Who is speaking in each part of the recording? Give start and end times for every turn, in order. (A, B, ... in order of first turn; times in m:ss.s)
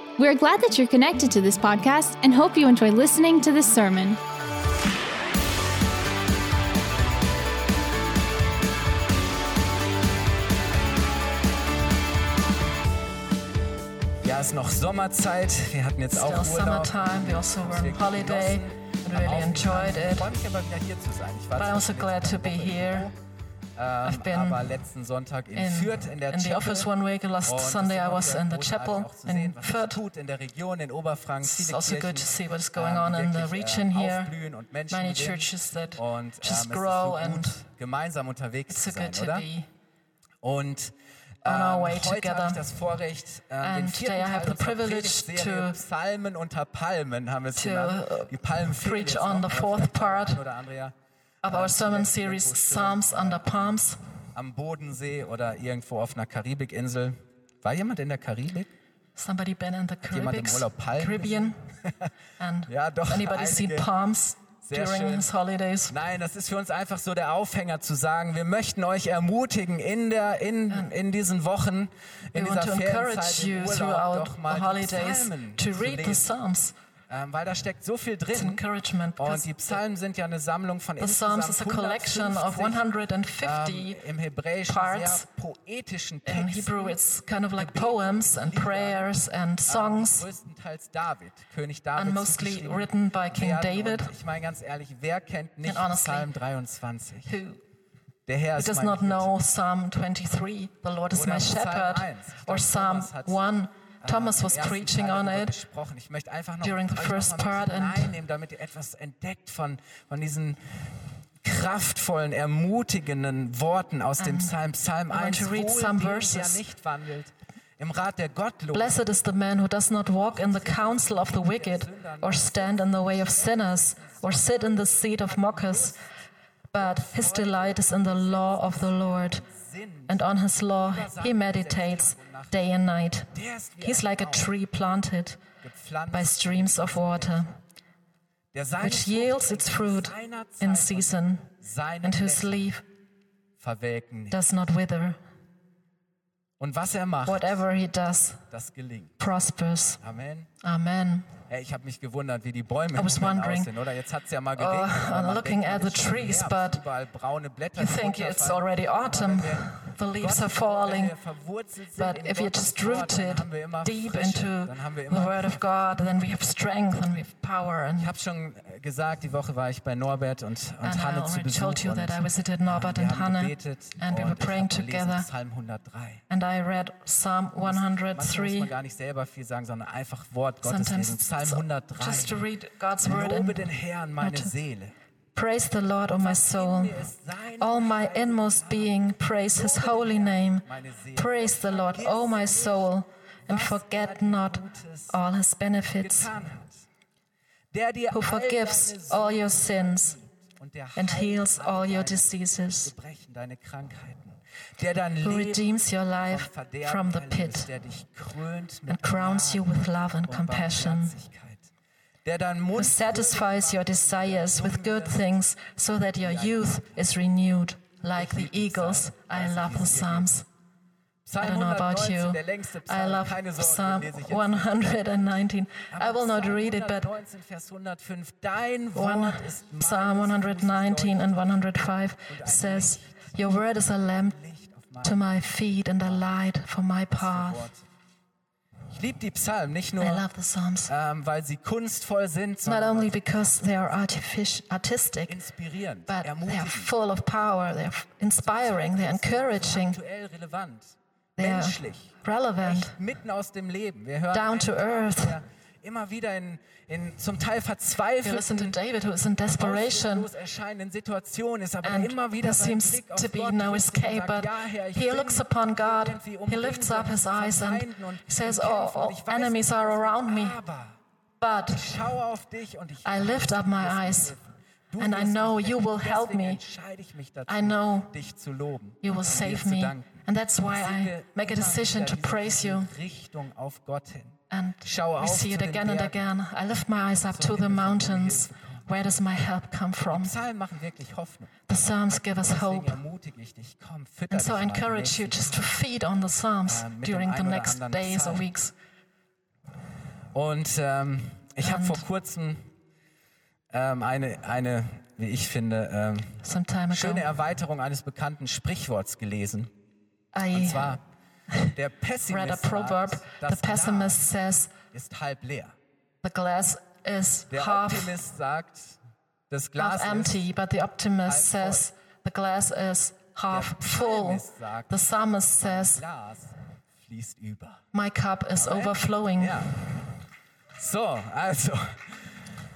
0:00.2-0:04.2 A
0:14.2-0:23.1 B
0:16.1-0:20.3 C
0:21.6-0:23.1 C
0:23.8-0:26.9 B
0:24.0-0:24.7 C
0:25.5-0:30.0 C
0:27.4-0:39.5 B
0:31.4-0:34.3 C
0:34.9-0:37.6 C
0:38.7-0:39.7 C
0:40.4-0:53.8 B
0:41.4-0:42.6 C
0:43.6-0:45.8 C
0:47.6-0:50.4 C
0:51.4-0:54.0 C
0:54.3-0:58.7 B
0:59.2-1:01.6 C
1:00.0-1:02.1 B
1:02.4-1:06.0 C
1:02.7-1:03.9 B
1:04.6-1:05.3 B
1:05.9-1:16.3 B
1:12.3-1:16.7 C
1:17.1-1:18.6 B
1:18.3-1:19.5 C
1:19.2-1:22.8 B
1:21.0-1:24.0 C
1:23.4-1:27.0 B
1:24.7-1:25.2 C
1:26.2-1:30.2 C
1:27.6-1:29.1 B
1:29.7-1:37.4 B
1:32.0-1:34.1 C
1:35.6-1:36.3 C
1:37.2-1:37.6 C
1:38.3-1:39.3 B
1:38.6-1:45.5 C
1:41.1-1:43.4 B
1:44.0-1:50.6 B
1:46.6-1:48.1 C
1:51.4-1:59.0 B
1:54.2-1:54.5 C
1:55.1-1:56.6 C
1:58.7-2:06.0 C
2:00.3-2:06.0 B
2:06.7-2:09.4 C
2:06.7-2:10.2 B
2:10.1-2:15.4 C
2:10.8-2:12.6 B
2:13.3-2:14.5 B
2:15.6-2:17.4 B
2:16.1-2:17.6 C
2:18.5-2:22.7 B
2:18.8-2:21.5 C
2:22.0-2:22.8 C
2:23.6-2:24.4 B
2:24.3-2:25.2 C
2:26.6-2:27.6 B
2:27.2-2:28.4 C
2:28.5-2:29.1 B
2:29.2-2:30.0 C
2:30.0-2:30.5 B
2:30.6-2:31.3 C
2:31.5-2:45.6 B
2:32.9-2:33.7 C
2:34.5-2:36.8 C
2:37.8-2:41.1 C
2:42.0-2:48.1 C
2:48.0-2:56.2 B
2:50.8-2:55.3 C
2:56.3-2:58.7 C
2:57.6-3:02.4 B
3:00.6-3:04.5 C
3:03.0-3:04.9 B
3:05.3-3:07.0 C
3:06.2-3:12.9 B
3:07.6-3:16.3 C
3:13.4-3:15.2 B
3:16.0-3:16.8 B
3:17.7-3:25.6 B
3:18.1-3:20.2 C
3:21.0-3:22.9 C
3:25.2-3:27.7 C
3:26.3-3:29.7 B
3:28.9-3:31.2 C
3:30.2-3:31.7 B
3:32.2-3:35.3 B
3:32.7-3:40.4 C
3:36.2-3:37.0 B
3:38.1-3:40.3 B
3:41.2-3:44.9 B
3:41.4-3:47.1 C
3:45.9-3:51.2 B
3:48.9-3:54.4 C
3:52.3-3:55.4 B
3:55.0-3:57.7 C
3:57.1-3:57.8 B
3:58.9-4:00.2 B
4:00.0-4:00.9 C
4:00.9-4:03.9 B
4:02.6-4:05.4 C
4:05.3-4:06.9 B
4:06.1-4:10.0 C
4:08.4-4:18.7 B
4:11.4-4:13.0 C
4:14.3-4:15.4 C
4:18.2-4:20.3 C
4:19.5-4:31.0 B
4:21.8-4:30.6 C
4:31.4-4:31.9 C
4:31.7-4:46.3 B
4:33.0-4:34.4 C
4:35.0-4:36.6 C
4:37.5-4:38.1 C
4:39.0-4:42.9 C
4:44.5-4:50.3 C
4:47.3-4:48.8 B
4:50.1-4:51.6 B
4:51.7-4:53.0 C
4:52.4-4:55.7 B
4:54.3-4:58.7 C
4:56.6-4:58.5 B
5:00.3-5:02.6 B
5:01.6-5:02.0 C
5:03.7-5:06.4 B
5:06.4-5:07.3 C
5:06.9-5:09.7 B
5:10.3-5:11.0 C
5:10.5-5:11.0 B
5:11.7-5:14.2 B
5:12.3-5:14.7 C
5:14.9-5:15.8 B
5:16.2-5:18.1 C
5:17.5-5:19.0 B
5:19.5-5:20.4 B
5:19.8-5:26.0 C
5:21.2-5:21.9 B
5:23.5-5:25.0 B
5:25.6-5:27.8 B
5:27.9-5:29.8 C
5:28.6-5:29.8 B
5:30.8-5:32.3 B